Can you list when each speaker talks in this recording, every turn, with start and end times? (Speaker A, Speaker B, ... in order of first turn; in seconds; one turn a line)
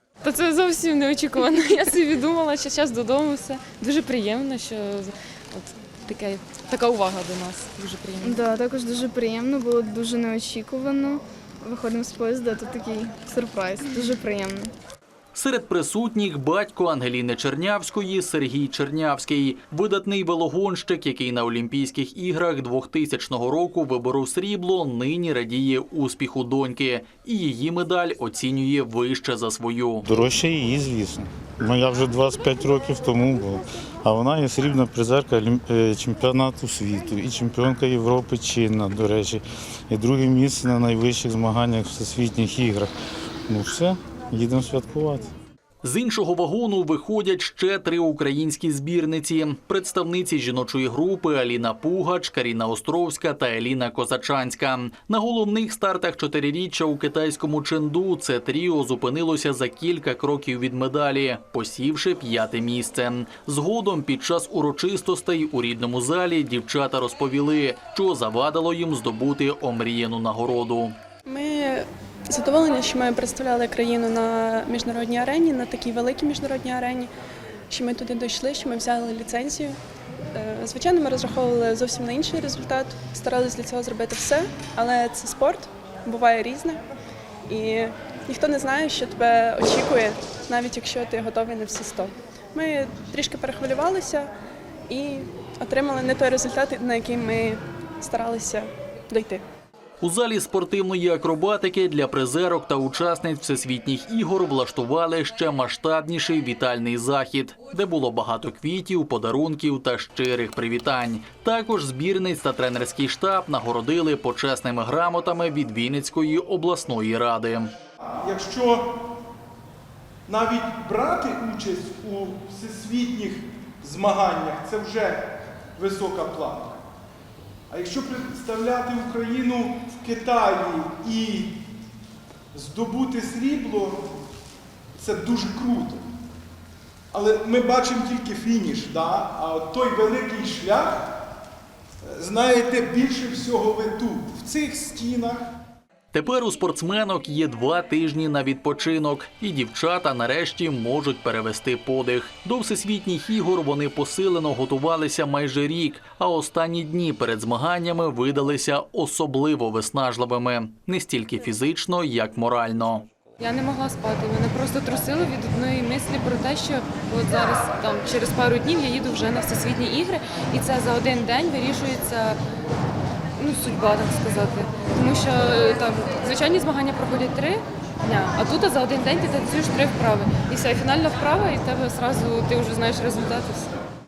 Speaker A: 0.2-8.4
Speaker B: 8.2-14.7
Speaker C: 15.3-30.1
Speaker D: 30.1-42.9
Speaker D: 43.5-45.3
Speaker C: 45.8-71.0
Speaker E: 71.2-77.1
Speaker E: 77.7-79.7
Speaker E: 80.3-86.8
Speaker E: 87.5-94.3
Speaker E: 94.9-99.4
Speaker C: 100.0-117.7
Speaker F: 118.2-118.9
Speaker F: 120.3-126.8
Speaker F: 127.7-131.6
Speaker F: 132.5-134.1
Speaker F: 134.9-136.0
Speaker F: 137.1-141.2
Speaker F: 142.0-145.5
Speaker C: 146.1-163.0
Speaker A: 163.4-172.4
Speaker A: 173.3-183.7